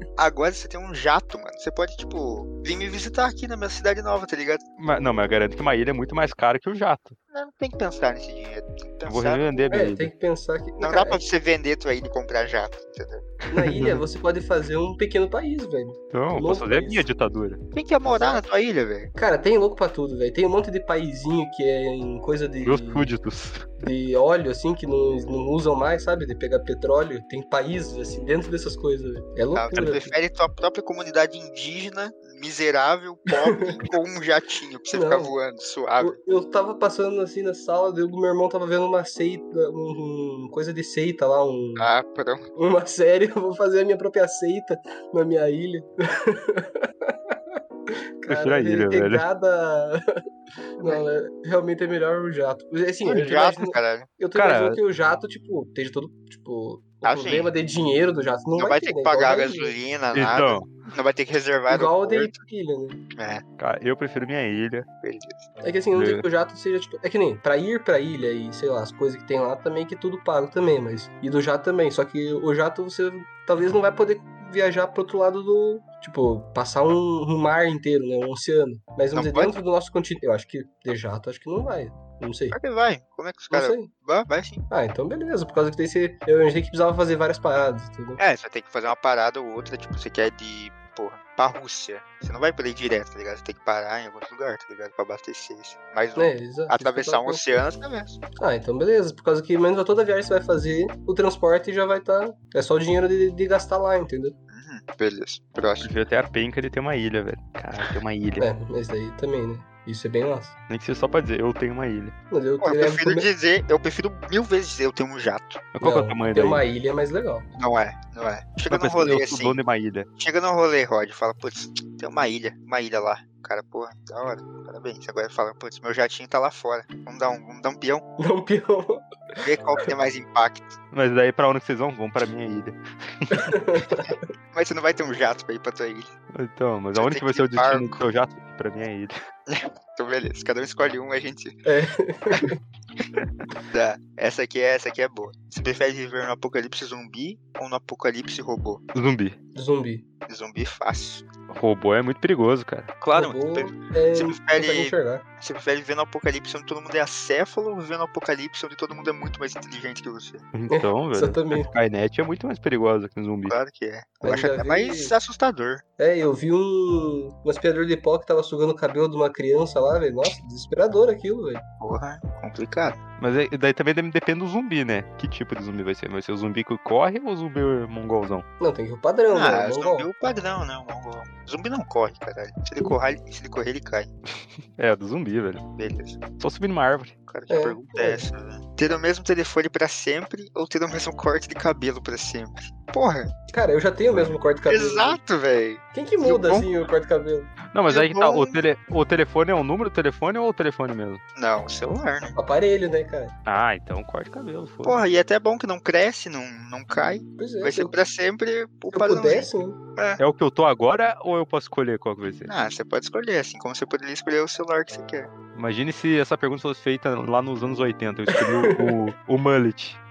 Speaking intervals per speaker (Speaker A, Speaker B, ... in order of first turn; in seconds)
Speaker A: 0.2-4.6, 7.3-9.6, 10.8-13.3, 17.7-19.1, 29.5-36.2, 41.8-42.5, 53.0-54.1, 57.0-57.5, 58.5-62.4, 63.1-63.4, 65.0-65.5, 79.1-79.6, 82.5-84.6, 88.2-98.2, 104.5-105.9, 112.6-115.6, 117.5-119.6, 120.2-128.0, 129.4-130.8, 134.5-136.1, 136.9-137.9, 139.5-141.6, 143.7-148.8, 150.3-151.2, 153.0-160.4, 163.5-165.8, 171.8-173.0, 179.3-184.1, 185.8-186.2, 187.3-193.3, 194.7-196.7, 197.9-198.6, 201.3-202.3, 204.8-210.2, 212.4-215.3
Speaker B: 4.8-7.2, 9.1-10.1, 13.6-14.0, 16.1-17.6, 22.6-23.7, 48.3-49.2, 54.3-54.8, 60.1-60.7, 63.6-64.9, 65.9-66.2, 105.8-108.5, 110.7-112.1, 115.7-116.6, 118.7-120.1, 130.9-133.5, 136.3-139.1, 148.9-149.3, 151.5-152.9, 160.5-163.6, 173.2-178.4, 184.8-185.7, 186.4-187.2, 197.7-201.2, 203.4-205.0, 210.2-212.5, 215.5-220.0
Speaker C: 9.7-11.2, 13.5-17.1, 18.0-18.4, 19.1-23.1, 23.8-30.1, 33.5-33.8, 34.9-35.3, 36.0-41.9, 42.5-47.4, 48.2-50.0, 50.8-59.7, 61.7-63.0, 65.6-82.6, 83.5-83.9, 84.7-88.2, 96.2-97.6, 98.4-104.3, 108.4-110.5, 112.3-113.3, 115.8-117.5, 128.2-129.4, 133.3-134.2, 141.6-142.6, 149.5-150.0, 153.1-155.2, 160.7-161.7, 164.2-165.1, 166.0-171.6, 178.6-180.1, 187.5-188.2, 193.5-195.2, 195.9-197.5, 202.3-203.3, 207.4-208.0, 208.9-209.8, 218.3-219.0